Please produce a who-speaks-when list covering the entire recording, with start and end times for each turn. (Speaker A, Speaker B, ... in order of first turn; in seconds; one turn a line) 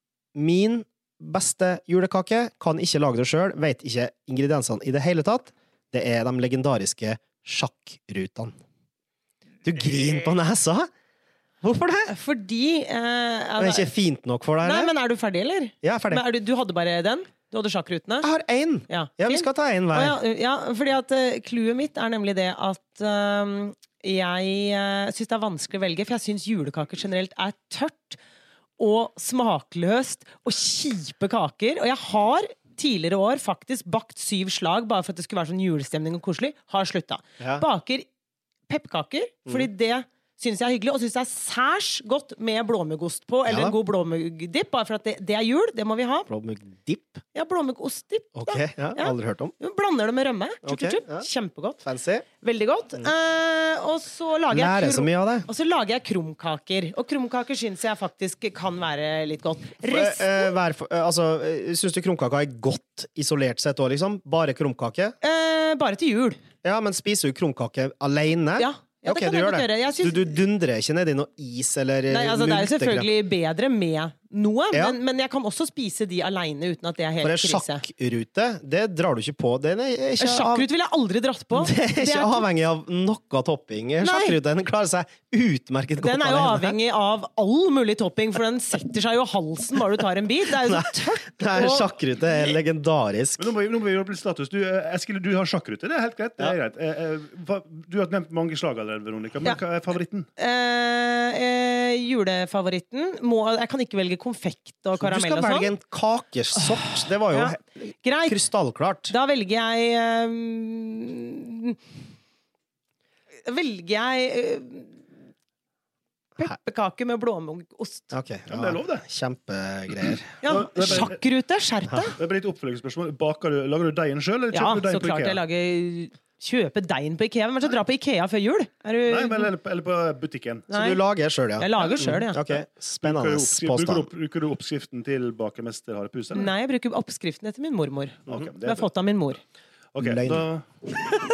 Speaker A: 0.3-8.5
Speaker A: 9.6-10.9
Speaker A: 11.6-12.1
Speaker B: 12.1-13.9
Speaker A: 13.6-14.9
Speaker B: 14.6-18.3
Speaker A: 15.8-16.2
Speaker A: 18.2-20.2
Speaker B: 18.9-28.2
Speaker B: 28.8-38.1
Speaker A: 37.4-37.6
Speaker B: 38.7-46.3
Speaker A: 43.5-43.7
Speaker A: 46.3-47.2
Speaker B: 47.3-51.8
Speaker A: 48.4-49.5
Speaker A: 50.6-51.3
Speaker A: 51.8-52.2
Speaker B: 52.4-60.5
Speaker A: 54.5-55.5
Speaker A: 59.8-65.2
Speaker B: 65.2-66.4
Speaker A: 66.6-73.1
Speaker B: 68.6-70.3
Speaker B: 72.1-77.8
Speaker A: 77.2-80.7
Speaker B: 80.2-82.5
Speaker A: 81.5-86.8
Speaker B: 84.0-84.4
Speaker B: 86.0-91.9
Speaker A: 90.6-93.5
Speaker C: 93.4-100.3
Speaker B: 100.4-105.7
Speaker A: 105.0-109.1
Speaker B: 106.6-108.4
Speaker B: 109.1-111.8
Speaker B: 113.4-115.1
Speaker B: 116.4-118.1
Speaker A: 118.1-120.3
Speaker C: 118.5-119.0
Speaker C: 120.0-121.2
Speaker B: 120.4-122.2
Speaker C: 122.2-125.4
Speaker B: 124.5-129.5
Speaker C: 129.1-130.7
Speaker B: 130.7-131.0
Speaker A: 130.7-134.1
Speaker B: 131.6-132.4
Speaker C: 132.5-136.5
Speaker B: 136.3-139.4
Speaker C: 138.3-138.9
Speaker C: 139.9-140.7
Speaker A: 140.0-140.4